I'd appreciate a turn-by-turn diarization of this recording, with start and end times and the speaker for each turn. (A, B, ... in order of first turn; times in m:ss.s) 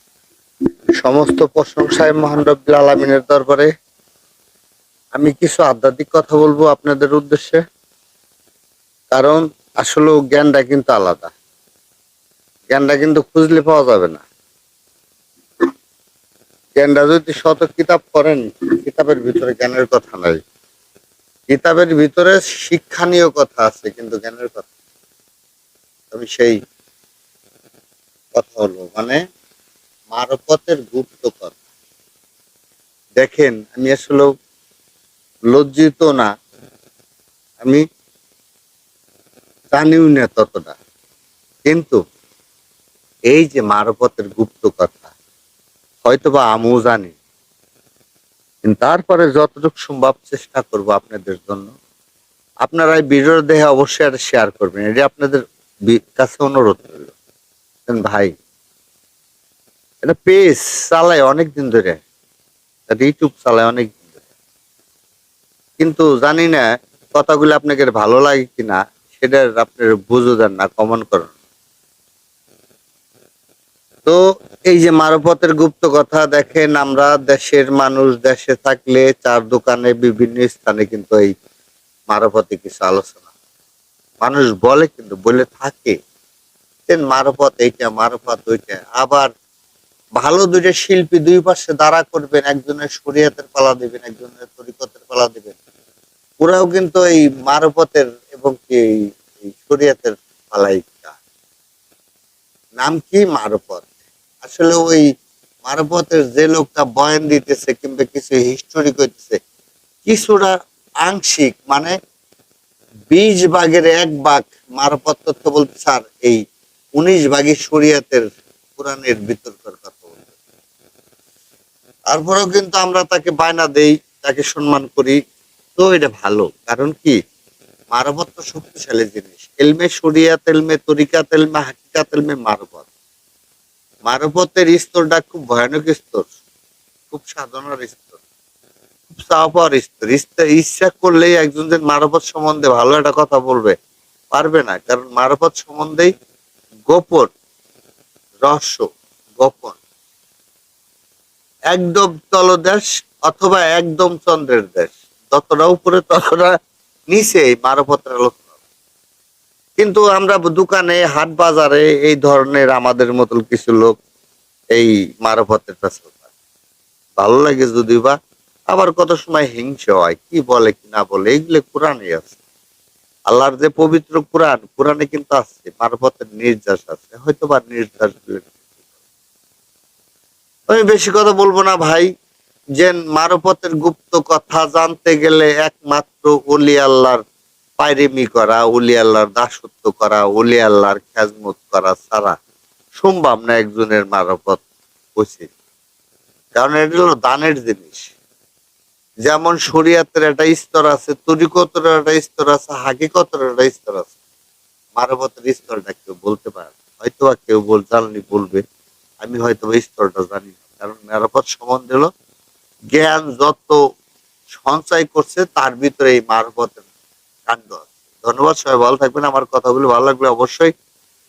0:01.0-0:03.7 A
0:05.2-0:07.6 A
0:09.1-0:11.3 A
0:12.7-0:14.2 A
0:16.8-0:20.4 A
0:21.5-0:24.7 A
0:26.1-0:26.6 A
0:28.4-0:29.2 A
0:30.1-0:31.6 A
0:33.2-0:34.3 A
0:35.5-0:36.3 A
0:39.7-0:40.8 A
0:41.7-0:42.0 A
0:43.3-0:45.1 A
0:46.0-0:47.1 A
0:48.6-0:51.7 A
0:52.6-0:57.1 A
0:57.9-0:58.3 A
1:00.0-1:02.0 A
1:02.9-1:04.0 A
1:05.8-1:06.6 A
1:07.2-1:11.3 A
1:14.7-1:21.3 A
1:22.1-1:23.2 A
1:24.2-1:26.0 A
1:26.9-1:29.3 A
1:30.2-1:35.6 A
1:36.4-1:38.8 A
1:39.4-1:41.2 A
1:42.8-1:43.9 A
1:44.4-1:45.0 A
1:45.6-1:49.4 A
1:50.0-1:50.5 A
1:51.0-1:51.9 A
1:53.1-1:56.4 A
1:57.0-2:00.2 A
2:02.1-2:05.2 A
2:05.8-2:07.2 A
2:07.9-2:12.8 A
2:14.1-2:16.3 A
2:17.1-2:18.2 A
2:19.1-2:23.8 A
2:24.3-2:26.1 A
2:26.9-2:27.3 A
2:28.4-2:28.9 A
2:29.4-2:29.8 A
2:31.7-2:36.5 A
2:37.1-2:38.4 A
2:39.8-2:44.0 A
2:44.7-2:46.2 A
2:47.2-2:48.2 A
2:48.7-2:52.4 A
2:53.3-2:58.6 A
3:00.7-3:02.1 A
3:02.8-3:07.2 A
3:07.8-3:12.4 A
3:13.0-3:14.6 A
3:15.2-3:15.5 A
3:16.6-3:18.1 A
3:19.3-3:24.1 A
3:25.0-3:28.6 A
3:29.2-3:32.1 A
3:32.9-3:33.8 A
3:34.5-3:36.8 A
3:37.5-3:40.7 A